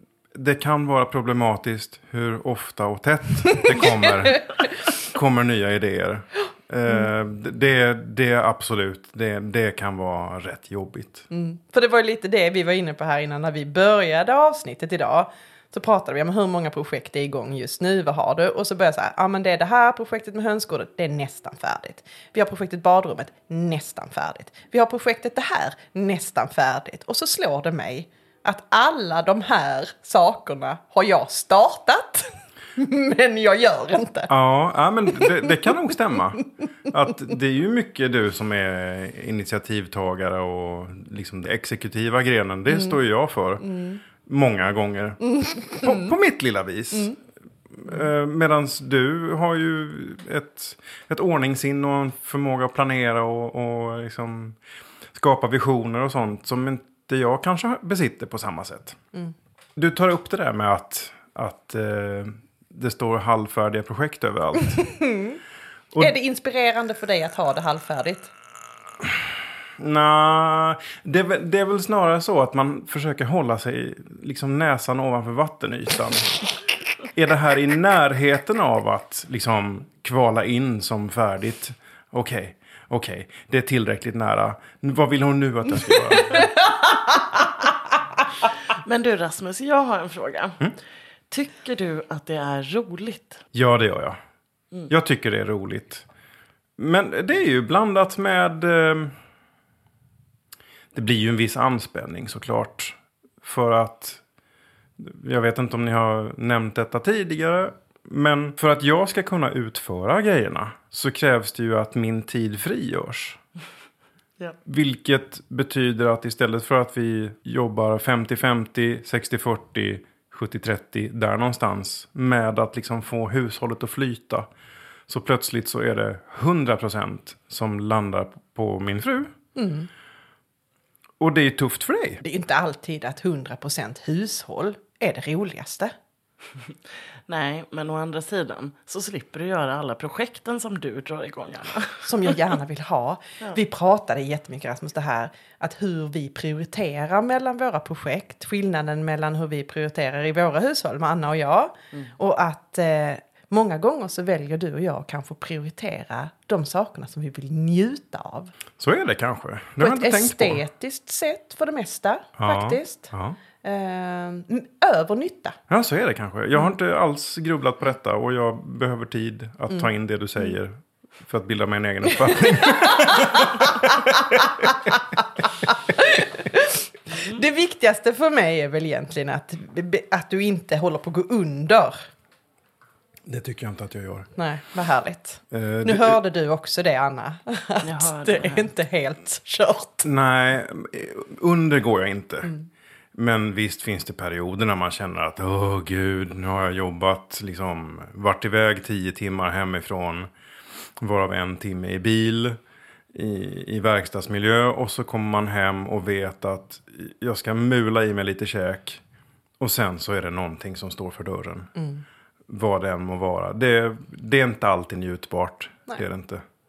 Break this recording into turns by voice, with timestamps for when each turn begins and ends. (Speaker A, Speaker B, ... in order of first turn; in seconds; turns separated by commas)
Speaker A: 0.3-11.2, Speaker B: 3.5-4.0, Speaker B: 11.3-34.3, Speaker A: 34.3-54.6, Speaker B: 35.1-35.5, Speaker B: 43.6-44.0, Speaker B: 45.3-46.1, Speaker A: 55.1-59.0, Speaker A: 59.8-64.9, Speaker B: 64.8-65.4, Speaker B: 66.0-68.3, Speaker A: 69.0-69.2, Speaker A: 69.8-76.4, Speaker A: 77.0-86.5, Speaker B: 86.4-87.3, Speaker C: 88.7-90.7, Speaker C: 91.3-93.4, Speaker A: 93.5-94.2, Speaker A: 94.9-96.0, Speaker A: 96.8-99.1, Speaker A: 100.9-104.2, Speaker A: 105.0-113.4, Speaker A: 114.6-124.5, Speaker A: 125.1-129.3, Speaker B: 129.6-129.9, Speaker A: 131.2-132.2, Speaker B: 132.2-135.9, Speaker C: 137.3-142.4, Speaker B: 142.0-158.5, Speaker A: 158.8-160.6, Speaker B: 159.8-165.6, Speaker A: 162.4-163.4, Speaker A: 165.7-174.7, Speaker B: 172.6-175.0, Speaker B: 175.7-182.1, Speaker A: 183.2-184.3, Speaker B: 184.3-190.1, Speaker A: 185.5-186.2, Speaker C: 187.8-188.7, Speaker A: 190.0-192.5, Speaker A: 193.1-200.3, Speaker A: 201.0-202.6, Speaker A: 203.1-209.0, Speaker A: 209.6-211.7, Speaker B: 211.8-212.0, Speaker A: 212.5-216.4